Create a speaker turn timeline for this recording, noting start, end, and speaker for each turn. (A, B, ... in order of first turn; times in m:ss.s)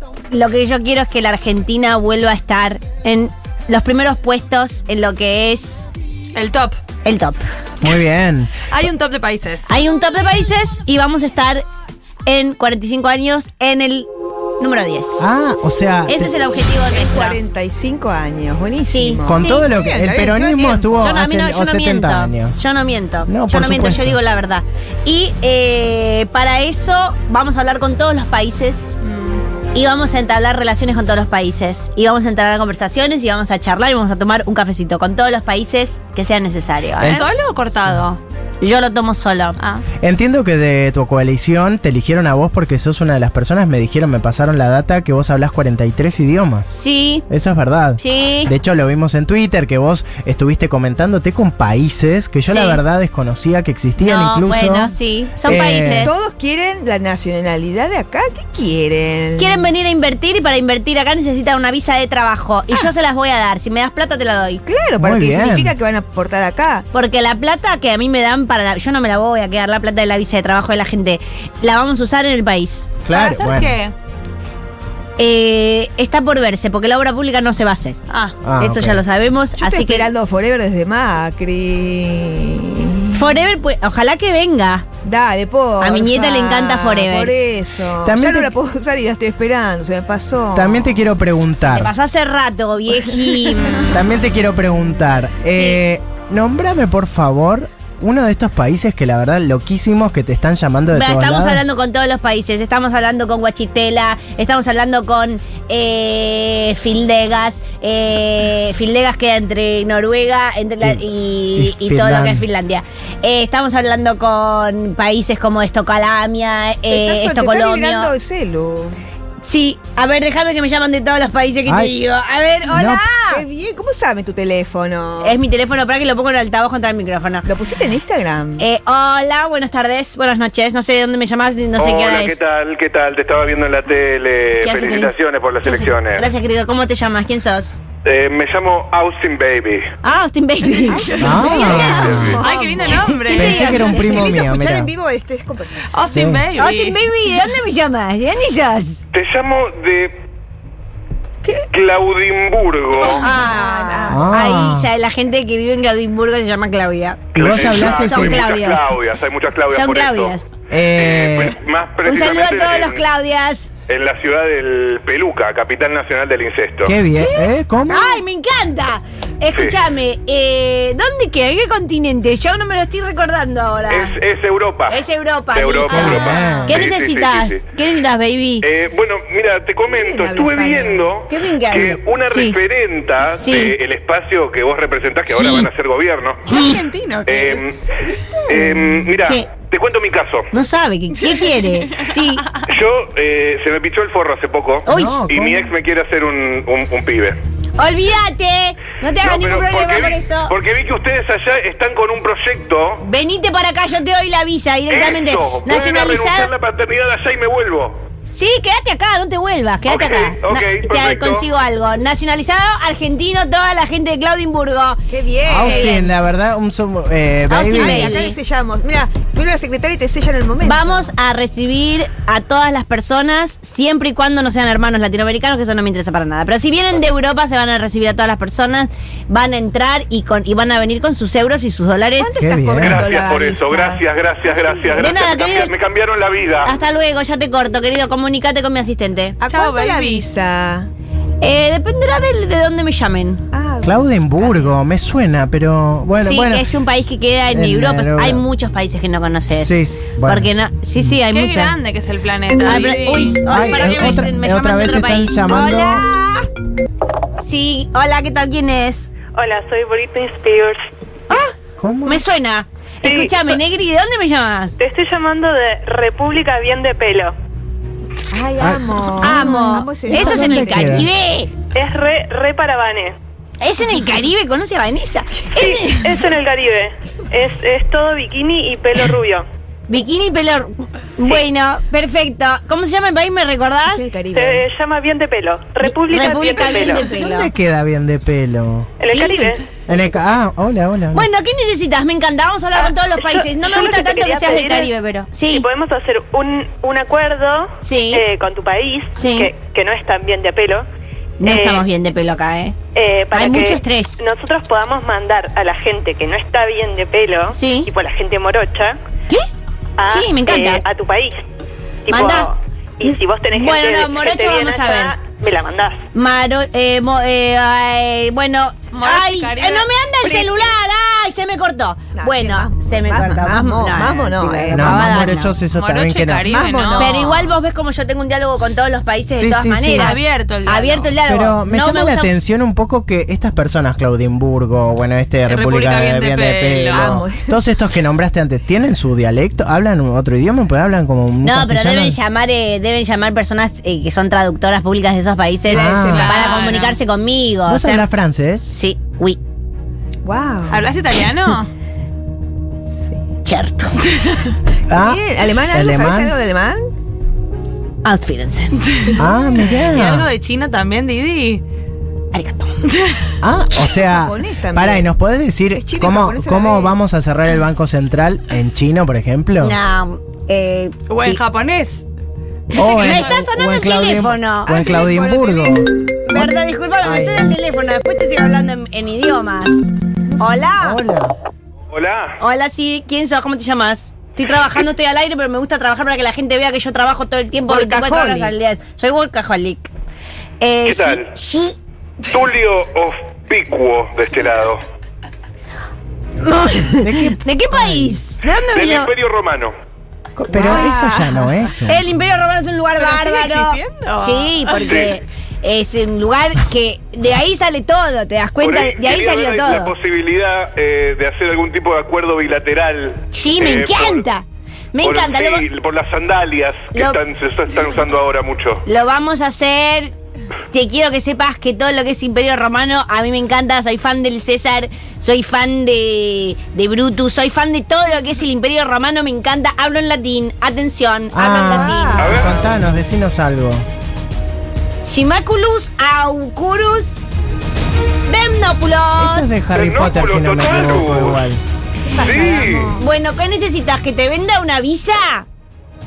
0:00.3-0:05.8 A
0:06.3-0:06.8 B
0:07.0-0:07.4 A
0:07.8-0:08.5 C
0:08.7-0:09.7 B
0:09.7-0:11.6 A
0:12.2-0:14.1 A
0:14.6-0:15.4 A
0:15.2-0:16.3 C
0:16.1-0:17.4 A
0:16.8-0:21.1 D
0:18.9-0:19.6 A
0:19.3-0:22.6 C
0:21.0-0:29.0 A
0:23.2-0:24.2 C
0:29.0-0:29.4 B
0:29.7-0:37.3 A
0:37.0-0:37.2 C
0:37.0-0:38.2 B
0:38.6-0:39.6 A
0:39.6-0:39.8 B
0:40.0-0:46.7 C
0:46.7-0:47.2 A
0:47.3-0:56.1 C
0:48.0-0:48.5 A
0:52.4-0:52.8 A
0:54.0-0:56.1 A
0:56.0-0:59.7 D
0:59.4-1:04.6 A
1:04.6-1:06.8 D
1:05.0-1:05.7 C
1:06.9-1:12.9 A
1:13.0-1:13.8 C
1:13.1-1:13.9 B
1:15.2-1:18.0 A
1:18.1-1:18.3 B
1:18.4-1:19.0 C
1:18.6-1:20.1 A
1:19.6-1:23.3 D
1:23.1-1:24.8 A
1:25.0-1:31.0 D
1:25.8-1:27.4 A
1:28.0-1:28.5 C
1:30.5-1:31.9 C
1:31.6-1:33.9 A
1:33.9-1:41.6 C
1:35.5-1:35.8 A
1:40.9-1:58.1 A
1:51.6-1:52.4 C
1:56.9-1:59.0 D
1:59.4-2:03.4 A
2:01.6-2:01.9 C
2:02.7-2:03.1 C
2:03.3-2:05.4 D
2:05.2-2:07.4 A
2:07.4-2:08.6 D
2:08.6-2:12.4 A
2:11.8-2:16.3 E
2:14.6-2:15.1 A
2:15.6-2:17.8 A
2:18.0-2:19.8 E
2:20.0-2:22.2 A
2:20.9-2:26.0 D
2:21.2-2:22.4 C
2:21.9-2:23.8 B
2:23.1-2:24.5 A
2:23.3-2:24.9 C
2:25.9-2:27.0 B
2:26.0-2:26.5 C
2:26.6-2:29.0 A
2:29.1-2:30.2 E
2:31.7-2:33.3 E
2:33.1-2:34.2 D
2:33.2-2:39.0 A
2:34.1-2:34.9 C
2:37.3-2:38.4 C
2:37.3-2:40.4 E
2:39.7-2:40.5 A
2:40.7-2:41.6 C
2:40.9-2:43.0 E
2:42.0-2:43.7 A
2:43.9-2:46.9 E
2:46.8-2:48.2 C
2:47.2-2:54.1 A
2:49.5-2:49.8 E
2:53.9-2:55.0 E
2:54.9-2:58.6 A
2:55.5-2:57.6 E
2:55.9-2:56.9 C
2:56.0-2:56.7 B
2:58.6-3:06.5 E
2:59.8-3:01.1 D
3:01.3-3:02.6 A
3:03.4-3:03.7 A
3:05.3-3:05.7 A
3:06.5-3:07.6 B
3:06.5-3:06.8 A
3:07.2-3:07.8 E
3:07.7-3:09.1 D
3:08.5-3:10.5 E
3:10.5-3:12.4 A
3:11.3-3:12.0 B
3:12.7-3:17.4 E
3:14.8-3:15.7 C
3:14.9-3:15.2 A
3:17.8-3:20.5 A
3:19.2-3:23.0 E
3:23.0-3:26.5 A
3:24.9-3:28.0 E
3:28.2-3:35.0 A
3:29.9-3:31.4 E
3:35.1-3:36.0 D
3:35.4-3:38.2 C
3:35.5-3:36.1 A
3:37.5-3:38.4 A
3:37.7-3:41.1 D
3:40.6-3:52.3 A
3:52.2-3:55.2 D
3:52.4-3:53.1 C
3:52.8-3:56.7 E
3:55.0-3:55.7 A
3:56.6-3:59.4 A
3:59.4-4:00.9 D
3:59.4-4:00.3 B
4:01.4-4:03.4 A
4:03.5-4:04.7 D
4:03.8-4:06.7 C
4:06.2-4:11.8 A
4:07.5-4:08.4 C
4:09.5-4:11.2 C
4:11.3-4:13.7 B
4:12.6-4:16.0 A
4:13.4-4:16.1 C
4:16.1-4:16.5 D
4:17.4-4:19.1 A
4:19.3-4:20.8 F
4:21.8-4:22.2 C
4:22.0-4:24.8 A
4:23.0-4:23.6 F
4:24.8-4:27.3 F
4:28.3-4:31.0 D
4:28.6-4:29.5 C
4:29.2-4:31.5 A
4:30.1-4:31.1 C
4:31.7-4:33.2 F
4:33.6-4:36.2 A
4:35.5-4:39.4 F
4:39.9-4:44.1 A
4:43.8-4:44.7 D
4:44.3-4:47.1 F
4:45.8-4:47.5 A
4:47.0-4:48.9 C
4:49.0-4:49.6 F
4:49.1-4:49.6 A
4:49.9-4:51.3 C
4:51.1-4:55.6 A
4:52.8-5:00.8 F
4:57.8-4:58.2 A
4:59.2-4:59.5 A
5:01.4-5:02.8 A
5:01.4-5:01.8 F
5:02.9-5:09.0 F
5:03.3-5:04.2 A
5:07.5-5:07.9 A
5:10.0-5:11.4 F
5:10.0-5:10.8 A
5:12.1-5:16.0 F
5:12.1-5:12.5 A
5:13.1-5:15.1 A
5:16.1-5:25.6 A
5:18.9-5:20.4 B
5:22.1-5:25.4 D
5:24.7-5:26.5 C
5:25.7-5:27.2 B
5:26.5-5:27.5 D
5:27.0-5:32.3 A
5:29.3-5:30.2 C
5:30.0-5:31.1 B
5:31.2-5:42.2 C
5:35.5-5:37.2 B
5:36.9-5:37.6 D
5:41.4-5:48.1 A
5:45.7-5:46.4 C
5:45.7-5:46.5 D
5:46.0-5:47.0 B
5:47.6-5:48.7 C
5:48.7-5:49.4 A
5:50.2-5:50.8 D
5:50.7-5:51.7 B
5:53.4-5:54.0 A
5:54.9-5:56.3 C
5:54.9-5:56.9 D
5:58.0-5:58.8 A
5:58.9-6:01.6 B
5:59.1-6:00.3 C
6:02.3-6:02.8 A
6:03.0-6:03.3 B
6:03.4-6:09.8 C
6:04.0-6:05.1 D
6:05.7-6:07.0 D
6:09.6-6:11.4 A
6:11.1-6:12.0 B
6:12.7-6:17.5 C
6:12.8-6:14.7 A
6:12.9-6:13.3 B
6:14.6-6:15.8 D
6:16.3-6:19.9 A
6:20.4-6:21.0 A
6:20.7-6:21.3 C
6:21.9-6:22.3 E
6:22.4-6:29.9 A
6:27.7-6:28.5 D
6:30.6-6:31.8 A
6:30.8-6:31.3 E
6:32.3-6:34.8 E
6:36.4-6:39.1 A
6:37.0-6:38.2 C
6:38.6-6:39.7 E
6:40.4-6:42.0 C
6:40.5-6:41.5 D
6:40.6-6:40.9 A
6:41.8-6:49.9 A
6:43.0-6:44.9 B
6:44.8-6:45.1 E
6:48.6-6:54.3 E
6:53.3-6:55.6 A
6:55.0-6:58.8 E
6:56.9-6:57.2 A
6:58.8-7:00.1 A
7:00.7-7:12.4 A
7:11.3-7:13.8 C
7:11.7-7:12.4 D
7:12.2-7:12.6 E
7:15.0-7:17.2 A
7:18.3-7:19.8 A
7:19.2-7:21.6 C
7:19.7-7:21.5 E
7:22.0-7:23.0 D
7:22.1-7:22.9 E
7:23.0-7:25.4 A